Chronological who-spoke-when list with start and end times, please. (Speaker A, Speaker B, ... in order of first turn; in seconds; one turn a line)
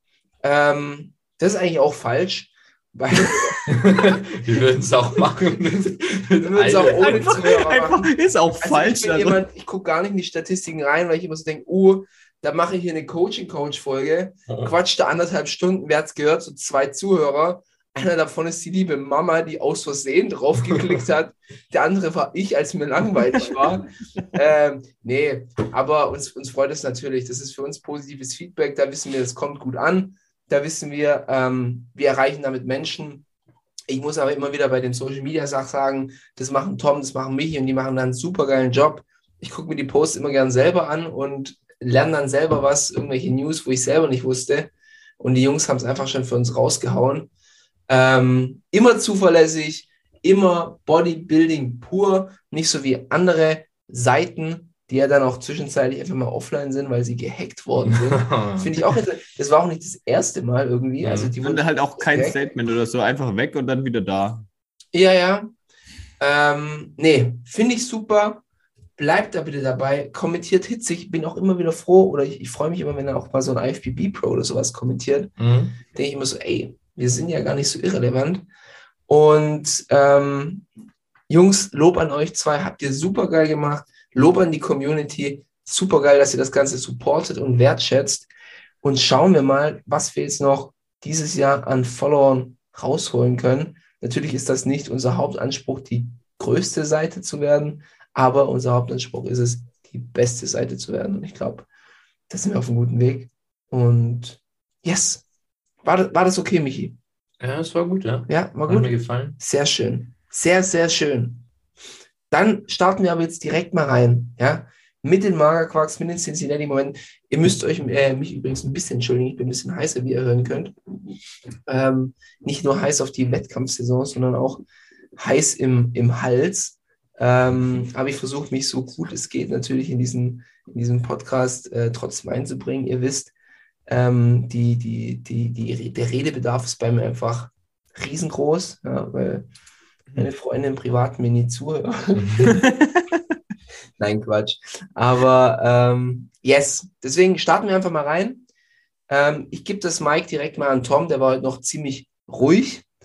Speaker A: 0.4-3.7
Speaker B: 3.7-7.5
Speaker A: 6.4-33.2
Speaker C: 6.8-9.4
Speaker A: 33.9-47.3
Speaker A: 47.9-62.4
Speaker B: 57.8-58.8
Speaker B: 61.0-61.3
Speaker C: 61.4-64.4
Speaker A: 64.9-65.5
Speaker A: 66.2-68.4
Speaker A: 69.0-75.3
Speaker B: 75.4-75.8
Speaker A: 75.8-78.5
Speaker A: 79.1-80.7
Speaker A: 81.3-88.3
Speaker A: 88.8-101.7
Speaker A: 102.3-105.2
Speaker A: 105.8-107.0
Speaker B: 107.4-109.4
Speaker A: 108.3-111.4
Speaker A: 112.3-120.7
Speaker A: 121.7-124.6
Speaker A: 125.2-133.3
Speaker A: 133.9-139.4
Speaker A: 140.1-142.6
Speaker B: 142.1-142.6
Speaker A: 144.0-148.4
Speaker A: 149.1-152.8